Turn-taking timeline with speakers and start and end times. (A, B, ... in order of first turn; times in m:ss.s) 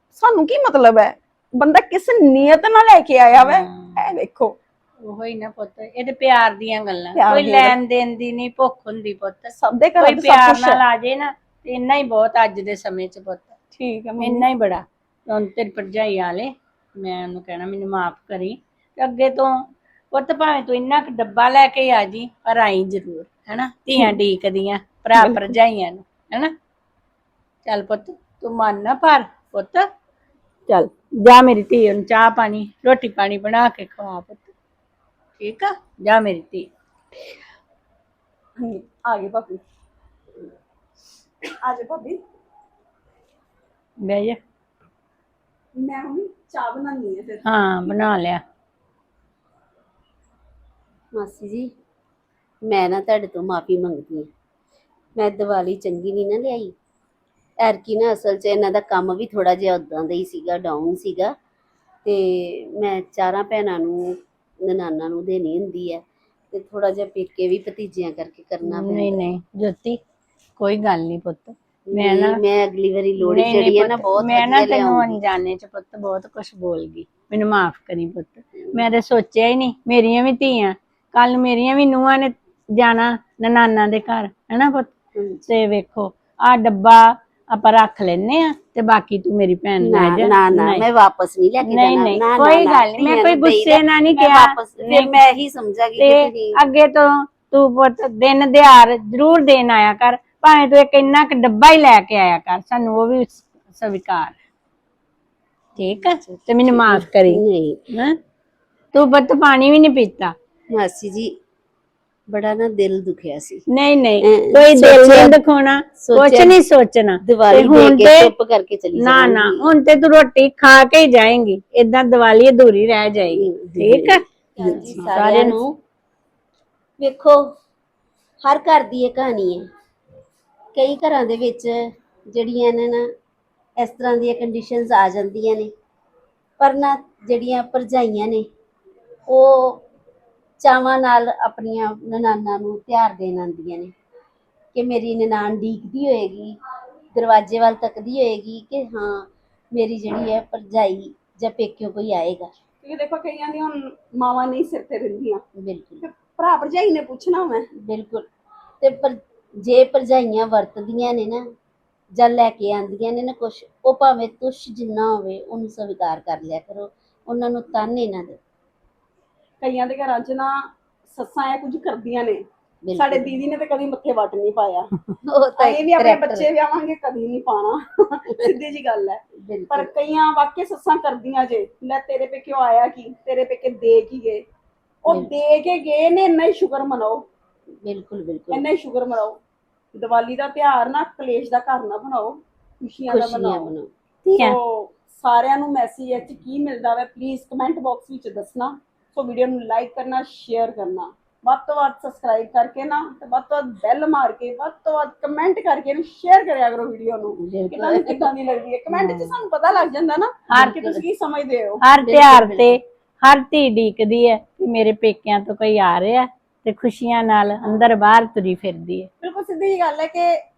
0:00.1-0:04.6 A
0:03.4-0:04.0 B
0:05.0-0:13.6 B
0:07.2-0:07.8 A
0:09.6-0:10.8 A
0:13.8-0:14.5 A
0:14.2-0:19.5 B
0:20.1-0:26.5 B
0:25.2-0:25.5 A
0:27.6-0:29.9 B
0:30.7-0:34.5 B
0:35.4-0:36.7 B
0:38.6-0:39.6 A
0:41.5-0:42.2 A
0:44.0-0:44.4 B
0:45.8-0:47.5 A
0:47.5-0:48.4 B
0:51.2-0:51.7 C
0:52.7-0:54.3 C
0:55.2-0:56.7 C
0:57.6-1:01.3 C
1:02.0-1:04.1 C
1:04.6-1:06.0 C
1:06.5-1:09.2 C
1:08.7-1:10.0 B
1:10.6-1:12.4 B
1:11.9-1:15.2 C
1:13.2-1:24.9 B
1:25.2-1:25.4 C
1:25.5-1:30.8 B
1:29.8-1:36.6 C
1:31.6-1:35.1 B
1:36.0-1:44.4 B
1:45.8-1:48.2 B
1:46.0-1:47.8 C
1:48.9-1:50.3 B
1:50.7-1:51.3 C
1:52.3-1:53.6 C
1:53.7-1:58.3 B
1:54.2-1:55.4 C
1:56.0-1:56.6 C
1:57.2-1:59.7 C
1:59.0-2:05.6 B
2:03.4-2:05.8 C
2:07.0-2:07.4 C
2:08.4-2:09.6 C
2:10.8-2:13.1 C
2:13.8-2:15.7 C
2:16.6-2:18.5 C
2:19.3-2:19.8 C
2:20.6-2:23.9 C
2:24.7-2:26.6 C
2:27.1-2:32.5 C
2:32.8-2:35.4 A
2:35.6-2:36.0 C
2:36.0-2:37.7 A
2:37.8-2:38.3 C
2:38.8-2:41.4 C
2:42.2-2:48.4 C
2:49.6-2:50.6 A
2:51.1-2:52.4 A
2:52.8-2:53.4 C
2:53.0-2:54.9 A
2:55.3-2:56.5 C
2:55.6-3:04.4 A
2:59.4-2:59.9 C
3:05.0-3:07.2 A
3:07.8-3:08.6 C
3:08.5-3:09.4 A
3:09.9-3:13.7 A
3:13.1-3:13.9 C
3:14.2-3:31.8 A
3:27.4-3:28.3 C
3:28.9-3:29.4 C
3:30.5-3:30.8 B
3:30.6-3:31.0 C
3:31.8-3:39.1 B
3:32.0-3:32.8 C
3:39.2-3:40.4 A